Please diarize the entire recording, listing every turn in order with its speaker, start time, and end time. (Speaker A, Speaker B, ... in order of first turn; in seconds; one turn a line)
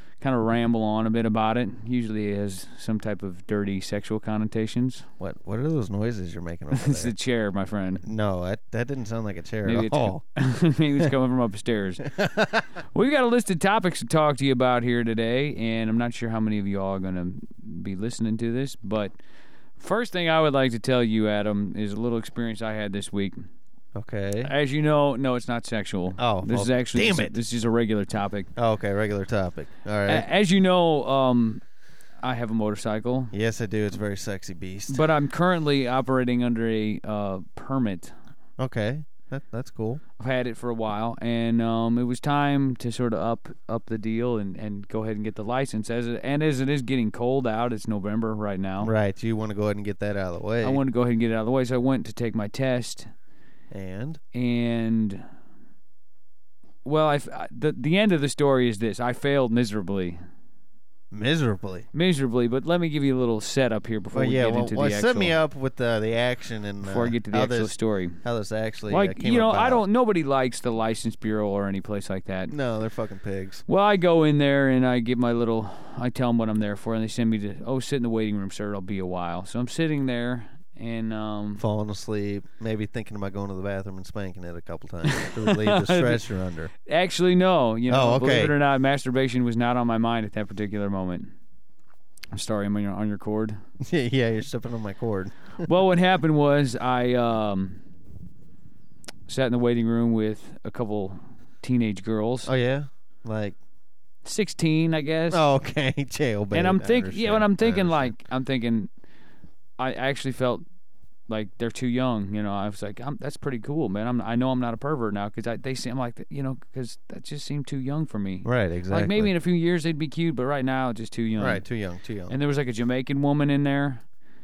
Speaker A: 0.2-5.1
Speaker B: 5.2-7.1
Speaker A: 6.7-8.0
Speaker B: 8.0-10.2
Speaker A: 9.6-12.0
Speaker B: 12.1-12.7
Speaker A: 12.9-19.1
Speaker A: 19.8-23.5
Speaker B: 23.9-24.5
Speaker A: 24.4-28.5
Speaker B: 26.2-27.4
Speaker B: 28.6-30.2
Speaker A: 30.1-31.6
Speaker A: 32.2-33.3
Speaker B: 33.3-35.0
Speaker A: 34.9-38.1
Speaker B: 38.6-40.0
Speaker A: 40.2-48.9
Speaker B: 48.8-50.8
Speaker A: 50.6-53.1
Speaker B: 53.7-54.2
Speaker A: 54.3-55.2
Speaker A: 56.8-60.2
Speaker B: 61.1-61.9
Speaker A: 61.9-65.3
Speaker B: 64.1-69.8
Speaker A: 66.8-68.2
Speaker A: 68.9-72.5
Speaker B: 72.5-73.6
Speaker A: 73.7-81.6
Speaker B: 81.6-86.7
Speaker A: 85.1-86.2
Speaker A: 86.8-91.3
Speaker B: 87.9-88.5
Speaker A: 92.3-93.6
Speaker B: 93.8-95.7
Speaker A: 95.6-97.8
Speaker A: 99.3-102.5
Speaker B: 102.4-103.6
Speaker A: 104.2-105.4
Speaker B: 105.3-108.1
Speaker A: 106.5-108.9
Speaker A: 109.8-110.6
Speaker A: 111.3-121.6
Speaker B: 118.4-119.3
Speaker B: 121.4-122.3
Speaker A: 122.3-124.0